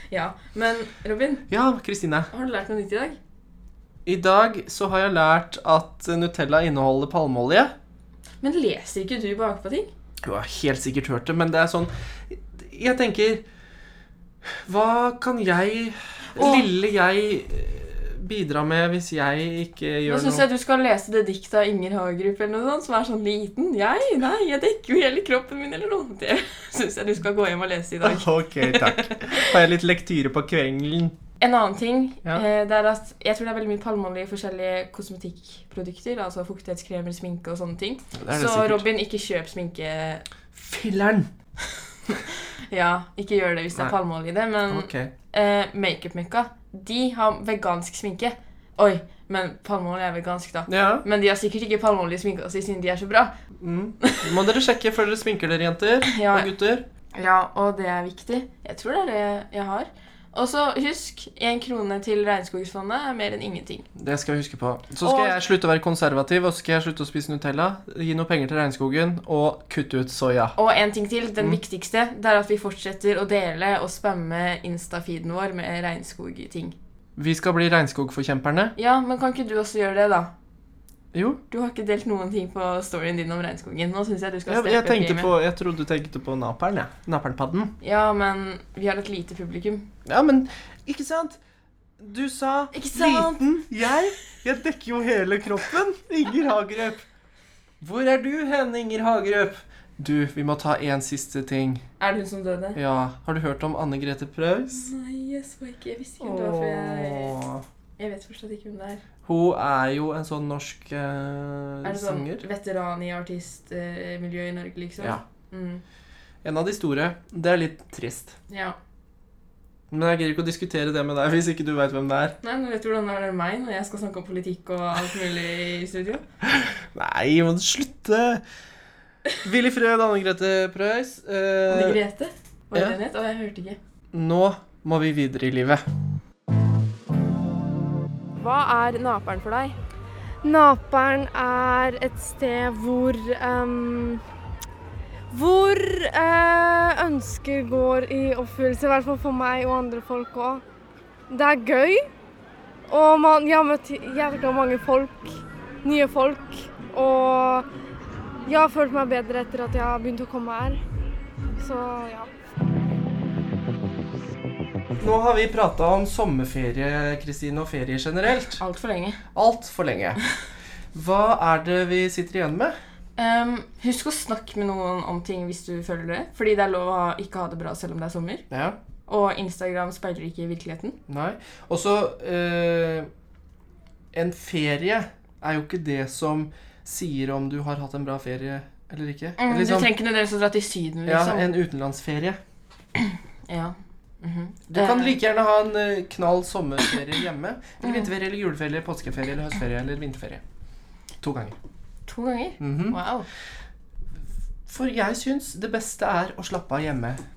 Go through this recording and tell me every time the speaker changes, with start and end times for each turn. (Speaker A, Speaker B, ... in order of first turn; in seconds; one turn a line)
Speaker A: 0.1-1.5
Speaker B: 1.5-2.3
Speaker A: 2.3-3.2
Speaker B: 4.1-7.7
Speaker A: 8.4-9.9
Speaker B: 10.2-13.4
Speaker B: 14.5-20.4
Speaker A: 16.4-16.7
Speaker A: 20.1-29.6
Speaker B: 28.0-31.1
Speaker A: 31.4-40.2
Speaker B: 38.1-38.9
Speaker B: 40.5-41.3
Speaker A: 42.1-53.3
Speaker B: 44.7-45.1
Speaker B: 50.7-51.0
Speaker B: 53.6-56.9
Speaker A: 54.0-54.3
Speaker A: 56.1-56.5
Speaker A: 57.1-63.9
Speaker B: 64.0-70.6
Speaker A: 65.0-65.4
Speaker A: 70.6-76.8
Speaker B: 77.2-78.8
Speaker A: 78.8-80.3
Speaker B: 81.1-81.4
Speaker A: 81.5-85.3
Speaker B: 84.5-87.7
Speaker A: 87.8-89.9
Speaker B: 90.0-91.4
Speaker B: 92.0-97.1
Speaker A: 92.7-93.5
Speaker B: 97.8-101.8
Speaker A: 102.0-102.8
Speaker B: 102.8-104.9
Speaker A: 104.7-107.4
Speaker B: 106.2-107.6
Speaker A: 108.0-109.0
Speaker B: 109.2-112.4
Speaker A: 111.8-115.8
Speaker B: 116.4-118.4
Speaker A: 118.5-118.8
Speaker B: 119.9-122.4
Speaker A: 122.4-126.2
Speaker B: 126.4-128.4
Speaker B: 129.4-132.0
Speaker A: 131.7-133.8
Speaker B: 134.1-135.8
Speaker A: 138.4-139.8
Speaker C: 140.4-144.2
Speaker C: 145.3-150.6
Speaker C: 151.3-152.1
Speaker C: 152.9-157.7
Speaker C: 158.5-160.8
Speaker C: 161.6-162.3
Speaker B: 165.0-168.6
Speaker A: 168.6-169.2
Speaker B: 169.3-170.2
Speaker B: 170.9-172.8
Speaker A: 173.2-178.4
Speaker B: 178.5-178.8
Speaker A: 179.1-181.0
Speaker B: 181.1-183.1
Speaker B: 184.1-189.9
Speaker A: 189.4-191.5
Speaker B: 191.1-192.4
Speaker A: 193.0-195.2
Speaker B: 194.7-200.4
Speaker A: 197.8-198.1
Speaker B: 201.2-201.6
Speaker A: 202.1-203.2
Speaker B: 202.6-203.0
Speaker B: 204.7-207.2